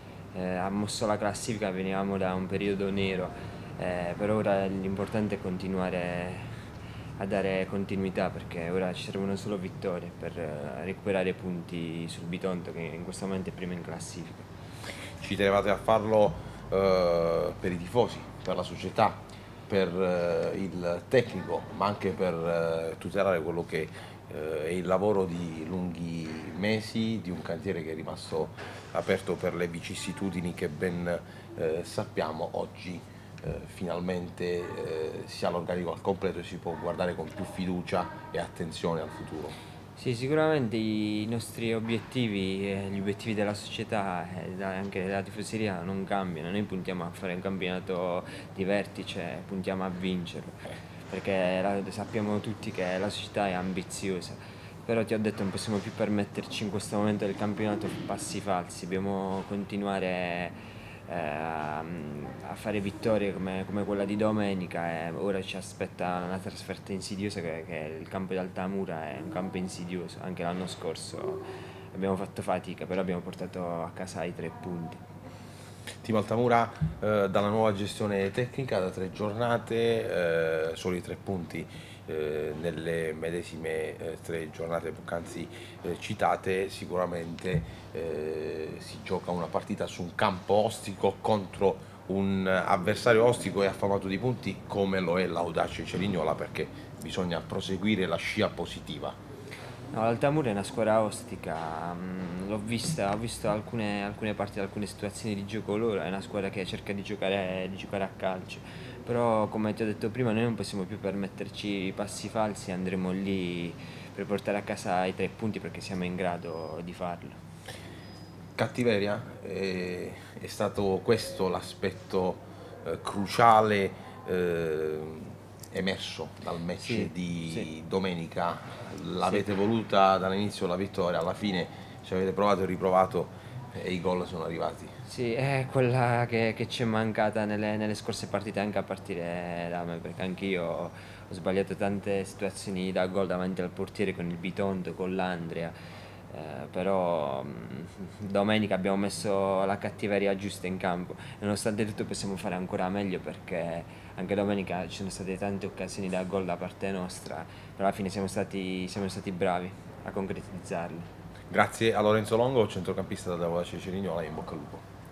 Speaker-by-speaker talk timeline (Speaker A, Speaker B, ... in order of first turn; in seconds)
Speaker A: 0.3-6.5, 7.2-14.5, 40.0-75.0, 99.9-117.4, 126.8-127.7, 135.1-145.7, 146.3-161.1
Speaker B: 15.2-39.6, 76.0-99.2, 118.6-134.9, 161.5-164.8